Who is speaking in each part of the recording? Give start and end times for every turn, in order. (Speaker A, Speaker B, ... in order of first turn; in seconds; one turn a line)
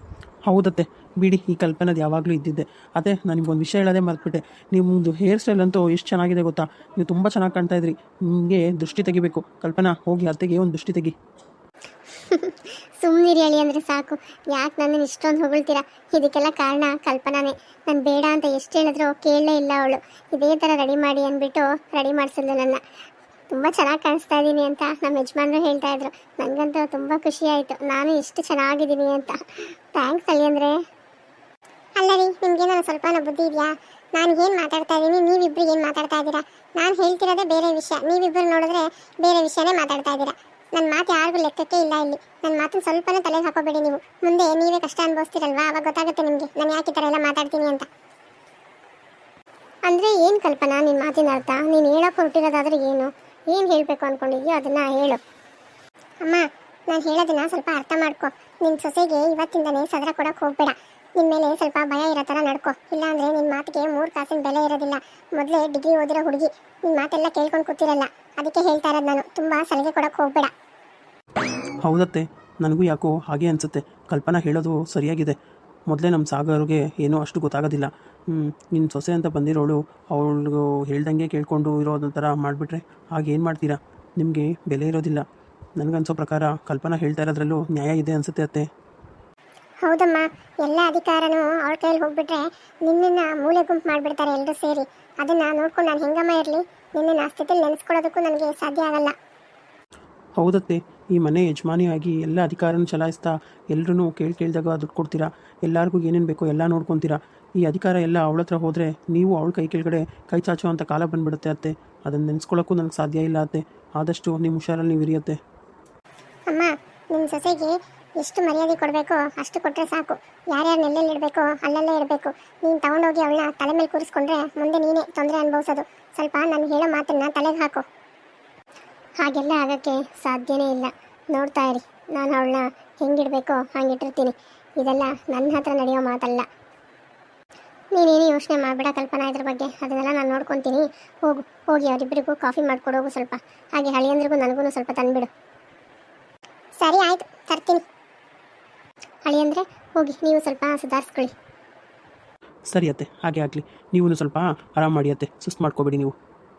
Speaker A: 0.5-11.1
Speaker B: 12.3-22.8
Speaker B: 23.5-30.7
Speaker B: 32.0-47.9
Speaker B: 49.9-55.2
Speaker B: 56.2-70.5
Speaker A: 71.8-75.3
Speaker A: 75.9-85.2
Speaker A: 85.8-88.6
Speaker B: 89.8-99.1
Speaker A: 100.4-115.3
Speaker B: 116.5-127.8
Speaker B: 129.2-136.4
Speaker B: 137.9-145.3
Speaker B: 146.8-147.8
Speaker B: 149.3-151.3
Speaker A: 152.7-156.1